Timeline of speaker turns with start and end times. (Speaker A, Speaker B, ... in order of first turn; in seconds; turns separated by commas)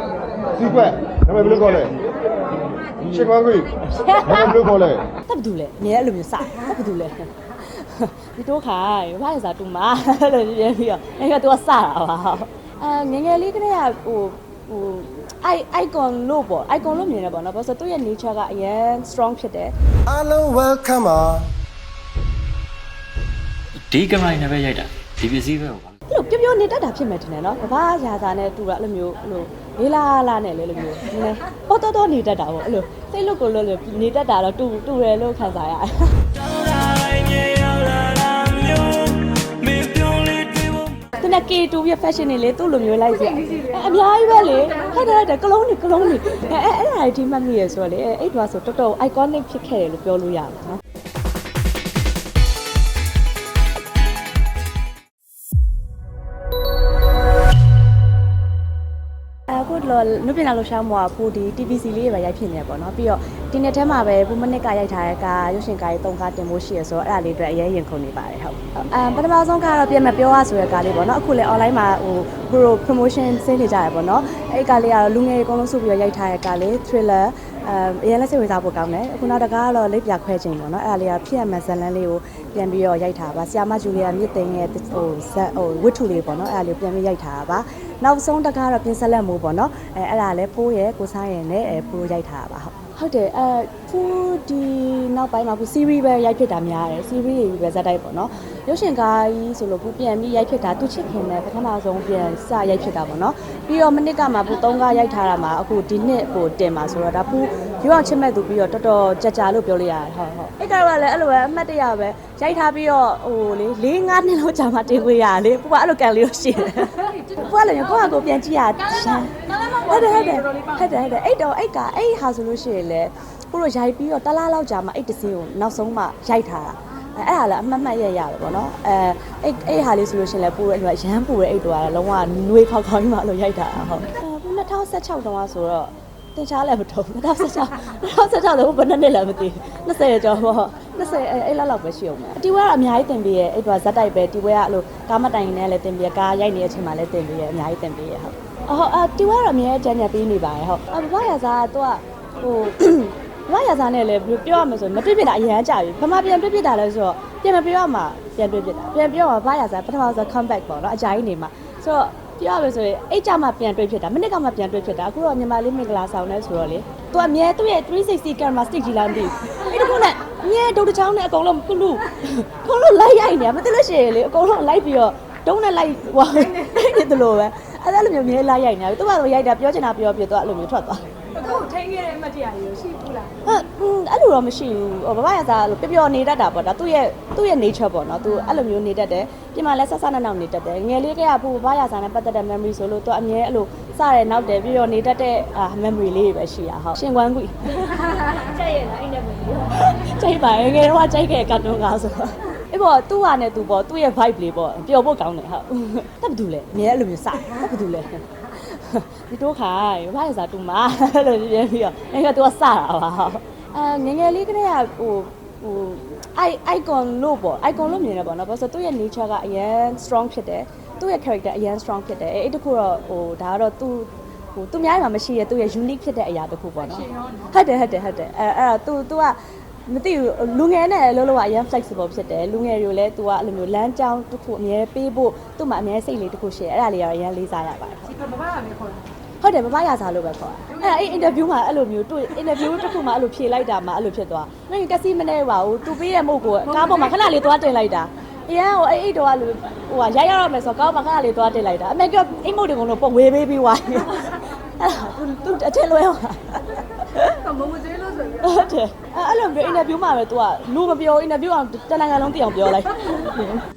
Speaker A: 0.6-2.0, Speaker A: 3.0-3.7, Speaker B: 3.8-4.7, Speaker A: 4.3-5.0, Speaker B: 5.3-19.7, Speaker A: 20.1-21.5, Speaker C: 23.9-25.9, Speaker B: 26.1-36.2, Speaker C: 36.3-41.0, Speaker B: 41.2-50.8, Speaker B: 59.5-181.7, Speaker D: 181.5-183.3, Speaker B: 183.4-238.2, Speaker D: 238.5-238.8, Speaker B: 239.4-257.5, Speaker B: 258.2-263.5